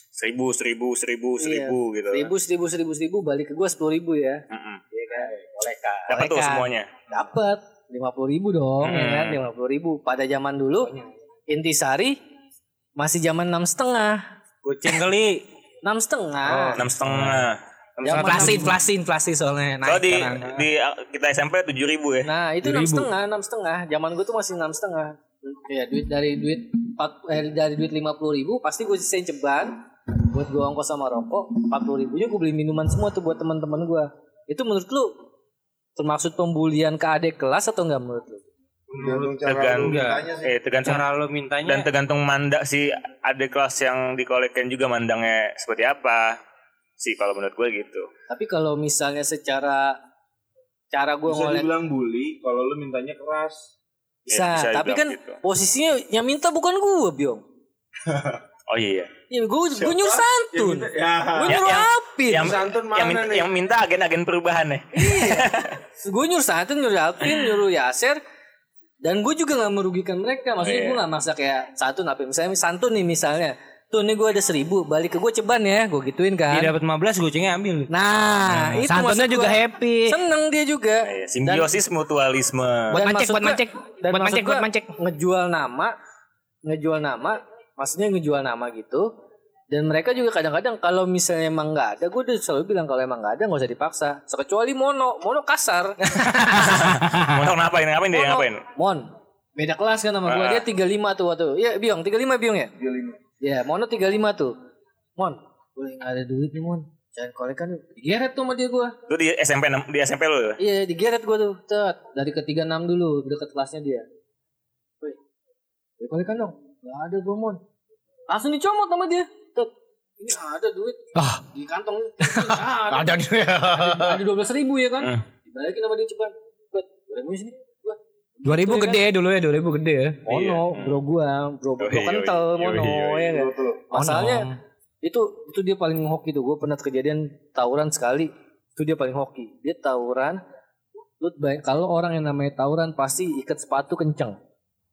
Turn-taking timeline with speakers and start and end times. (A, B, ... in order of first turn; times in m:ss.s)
0:00.2-0:02.3 A
0:01.4-0:05.3 B
0:04.5-0:04.8 A
0:06.0-0:12.2 B
0:06.1-0:06.9 A
0:08.8-0:09.4 A
0:13.0-0:14.2 B
0:14.6-0:15.4 C
0:15.8-0:16.8 B
0:16.5-0:18.8 C
0:16.8-0:17.6 A
0:18.0-0:18.7 B
0:18.2-0:20.5 D
0:19.8-0:22.3 A
0:22.2-0:35.1 B
0:22.6-0:23.0 C
0:36.0-0:38.4 B
0:38.9-0:40.5 E
0:39.0-0:41.9 C
0:39.4-0:41.0 A
0:41.6-0:46.4 A
0:47.0-0:48.1 A
0:48.3-0:50.0 B
0:50.9-0:51.7 B
0:51.2-0:53.7 E
0:54.3-0:57.4 B
0:54.3-0:55.4 A
0:58.7-0:59.1 A
0:59.3-1:02.6 B
0:59.7-1:01.6 E
1:01.4-1:05.8 A
1:02.3-1:03.5 E
1:04.9-1:08.2 B
1:09.0-1:16.7 B
1:10.6-1:11.0 A
1:16.5-1:17.9 C
1:17.9-1:21.8 B
1:18.8-1:20.2 D
1:21.0-1:23.0 A
1:22.9-1:24.9 D
1:22.9-1:26.0 B
1:26.6-1:29.1 B
1:29.7-1:36.1 B
1:36.2-1:37.4 D
1:36.5-1:38.6 A
1:38.1-1:42.7 B
1:40.2-1:40.6 A
1:42.8-1:43.2 E
1:43.4-1:44.6 B
1:45.2-1:48.9 B
1:49.1-1:50.6 A
1:50.6-1:54.0 B
1:56.0-1:57.6 B
1:58.3-2:09.0 B
2:01.2-2:01.4 D
2:02.2-2:04.2 D
2:08.4-2:10.3 D
2:10.3-2:14.5 B
2:10.3-2:11.0 A
2:11.8-2:13.4 A
2:13.2-2:13.9 E
2:13.9-2:14.6 D
2:15.0-2:20.4 B
2:21.2-2:24.4 B